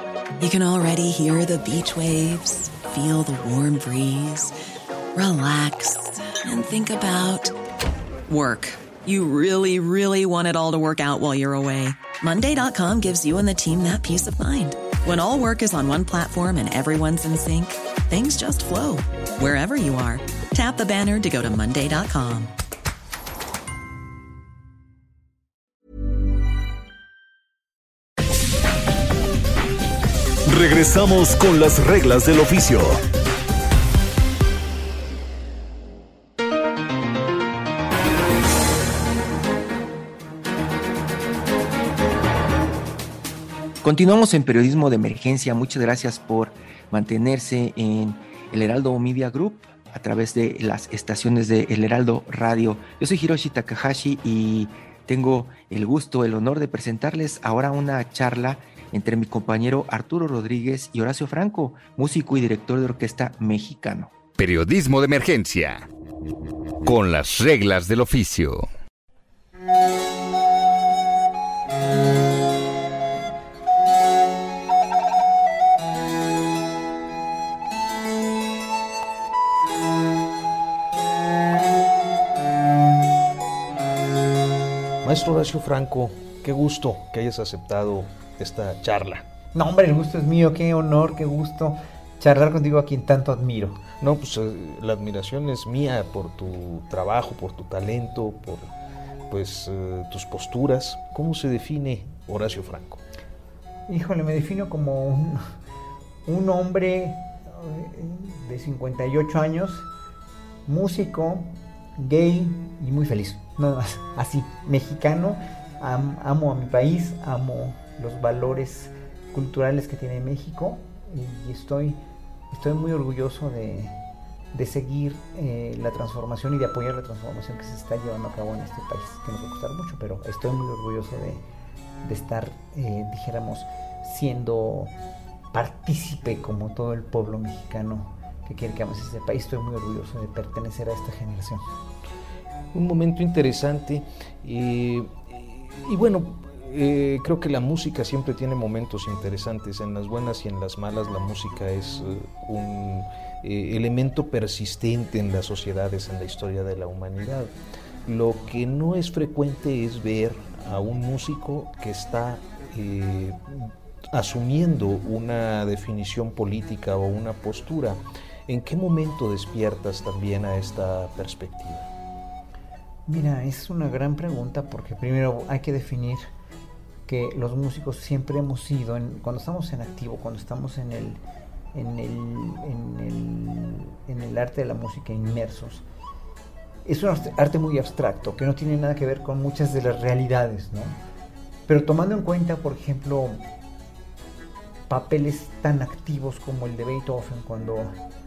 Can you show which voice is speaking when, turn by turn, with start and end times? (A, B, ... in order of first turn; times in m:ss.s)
0:00.4-0:04.5 A
0:05.2-0:07.6 A
0:08.3-0:22.5 A
0:30.5-0:33.0 B
0:43.8-1:04.1 C
1:04.4-1:05.9 D
1:06.8-1:08.7 D
1:25.0-1:29.3 E
1:29.5-1:33.8 F
1:34.0-1:38.7 E
1:39.3-1:43.0 E
1:43.9-1:45.4 F
1:46.3-1:49.9 F
1:50.7-2:02.0 F
2:02.5-2:04.0 F
2:04.5-2:11.4 F
2:12.0-2:14.9 F
2:15.5-2:21.7 F
2:22.7-2:37.5 E
2:38.1-2:51.9 E
2:53.1-2:56.3 F
2:57.1-3:01.2 F
3:01.7-3:05.8 F
3:06.8-3:11.0 F
3:11.7-3:13.4 F
3:14.9-3:17.9 F